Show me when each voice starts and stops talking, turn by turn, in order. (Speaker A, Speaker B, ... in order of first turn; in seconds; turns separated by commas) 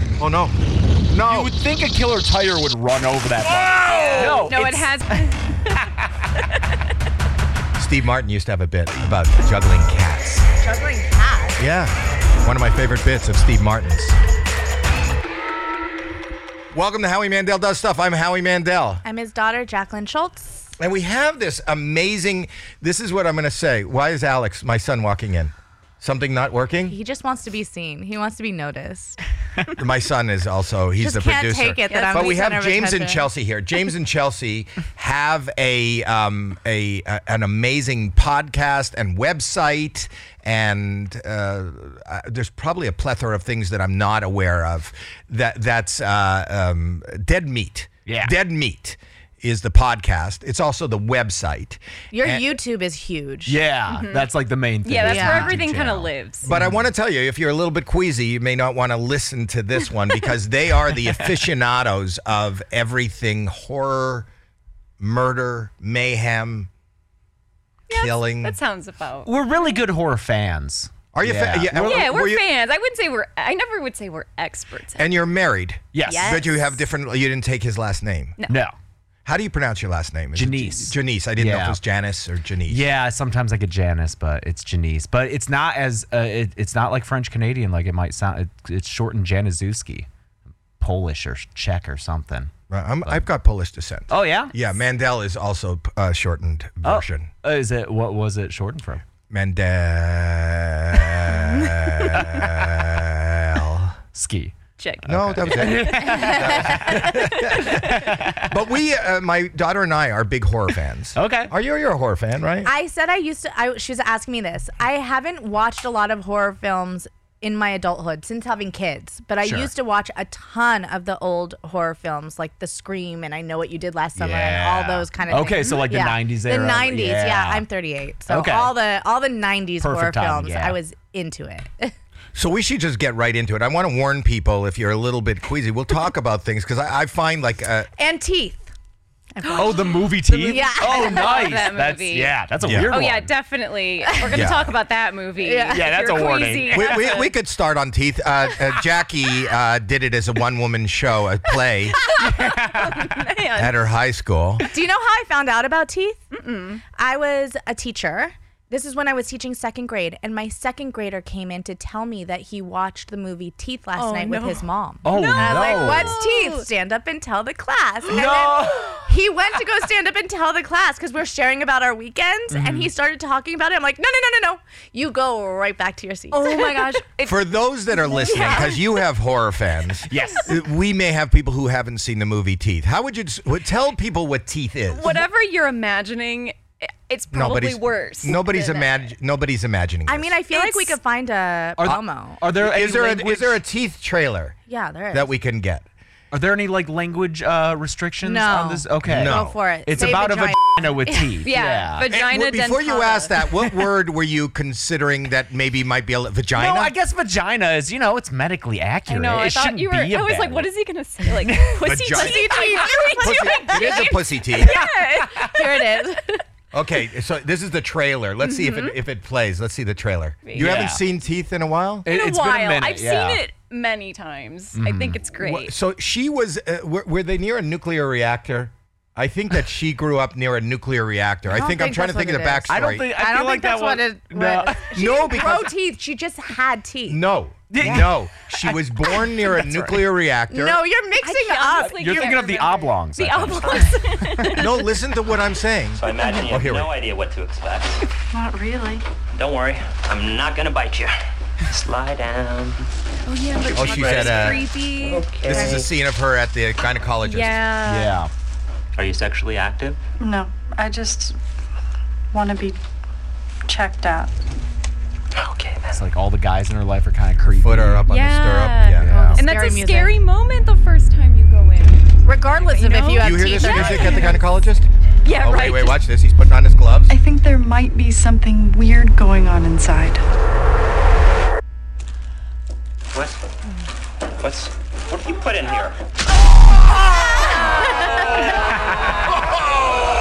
Speaker A: 0.2-0.6, Speaker A: 1.1-1.5, Speaker B: 1.2-4.9, Speaker A: 3.5-4.4, Speaker C: 3.9-5.4, Speaker D: 4.2-4.9, Speaker A: 7.8-10.4, Speaker D: 10.6-11.6, Speaker A: 11.6-14.2, Speaker A: 16.7-19.0, Speaker D: 19.0-20.7, Speaker A: 20.8-27.0, Speaker D: 26.9-29.2, Speaker A: 29.8-52.5, Speaker D: 31.0-33.2, Speaker C: 31.9-32.4, Speaker B: 48.0-48.3, Speaker D: 52.1-53.6, Speaker B: 53.5-56.9, Speaker C: 53.9-54.3, Speaker C: 54.8-56.5, Speaker D: 54.9-55.5, Speaker A: 56.4-64.3, Speaker B: 60.9-61.3, Speaker A: 65.0-66.7, Speaker C: 67.9-69.8, Speaker A: 67.9-68.5, Speaker B: 69.2-72.1, Speaker A: 71.1-72.5, Speaker C: 71.7-75.1, Speaker A: 75.0-78.3, Speaker B: 75.9-76.4, Speaker C: 76.1-76.8, Speaker B: 78.5-78.7, Speaker A: 79.2-82.9, Speaker B: 80.3-81.8, Speaker B: 82.7-90.1, Speaker B: 90.8-92.5, Speaker A: 92.7-97.3, Speaker B: 94.1-94.5, Speaker B: 96.8-99.0, Speaker A: 99.3-104.0, Speaker C: 101.5-101.8, Speaker B: 102.3-102.6, Speaker B: 104.1-104.5, Speaker C: 104.8-105.8, Speaker A: 105.1-112.7, Speaker B: 105.1-108.5, Speaker C: 107.5-107.8, Speaker B: 111.1-111.5, Speaker D: 112.6-131.9, Speaker B: 119.4-119.7, Speaker B: 124.1-127.6, Speaker B: 128.3-128.7, Speaker B: 129.8-130.8, Speaker A: 132.3-137.9, Speaker D: 138.0-138.7, Speaker D: 139.3-141.5, Speaker B: 139.5-143.3, Speaker C: 140.5-142.3, Speaker A: 142.6-143.0, Speaker C: 142.9-147.3, Speaker A: 144.3-144.8, Speaker D: 145.4-146.3, Speaker B: 145.7-147.1, Speaker A: 146.7-152.0, Speaker C: 152.0-153.8, Speaker B: 152.2-153.2, Speaker A: 153.5-154.7, Speaker D: 154.7-156.2, Speaker C: 156.3-156.8, Speaker D: 156.9-177.0, Speaker C: 163.9-166.7, Speaker B: 165.0-166.2, Speaker B: 168.1-169.0, Speaker B: 172.5-172.9, Speaker C: 176.3-177.4, Speaker A: 177.2-185.2, Speaker C: 178.0-178.8, Speaker B: 180.1-180.5, Speaker C: 184.9-189.1, Speaker A: 187.3-190.4, Speaker D: 190.1-192.4, Speaker C: 190.5-190.9, Speaker B: 191.8-193.6, Speaker A: 192.5-194.6, Speaker D: 194.7-195.3, Speaker A: 195.1-195.9, Speaker B: 196.3-202.1, Speaker D: 198.2-201.2, Speaker A: 199.0-199.6, Speaker C: 201.4-203.7, Speaker A: 202.1-206.9, Speaker B: 206.5-210.7, Speaker C: 209.1-216.1, Speaker B: 211.4-211.8, Speaker A: 211.8-214.8, Speaker D: 212.1-214.1, Speaker B: 212.6-212.9, Speaker B: 214.7-215.5, Speaker D: 215.4-216.4, Speaker A: 216.7-222.1, Speaker C: 220.4-220.8, Speaker B: 220.5-221.0, Speaker B: 222.0-223.4, Speaker C: 222.1-225.7, Speaker B: 224.7-225.2, Speaker A: 225.3-233.1, Speaker D: 231.5-237.2, Speaker B: 232.7-234.9, Speaker A: 234.9-235.8, Speaker A: 237.1-240.8, Speaker B: 237.7-238.3, Speaker B: 239.5-240.0, Speaker D: 240.5-242.5, Speaker C: 241.2-244.9, Speaker B: 241.8-244.5, Speaker A: 244.5-247.0, Speaker E: 245.9-248.0, Speaker F: 248.3-249.0, Speaker E: 249.3-251.1, Speaker E: 251.7-252.8, Speaker C: 253.2-255.8, Speaker A: 253.7-254.7, Speaker E: 255.1-255.6, Speaker A: 255.4-257.6, Speaker C: 257.2-258.2, Speaker B: 257.8-258.3, Speaker E: 258.9-260.0, Speaker F: 260.2-261.4, Speaker F: 262.3-262.8, Speaker F: 263.6-264.3, Speaker E: 265.3-266.0, Speaker B: 265.9-268.0, Speaker A: 267.6-269.3, Speaker C: 268.1-274.5, Speaker B: 269.0-269.4, Speaker D: 269.1-270.1, Speaker D: 272.2-274.4, Speaker A: 273.2-277.1, Speaker C: 275.2-276.0, Speaker F: 277.1-280.2, Speaker E: 284.4-286.0, Speaker D: 287.5-288.3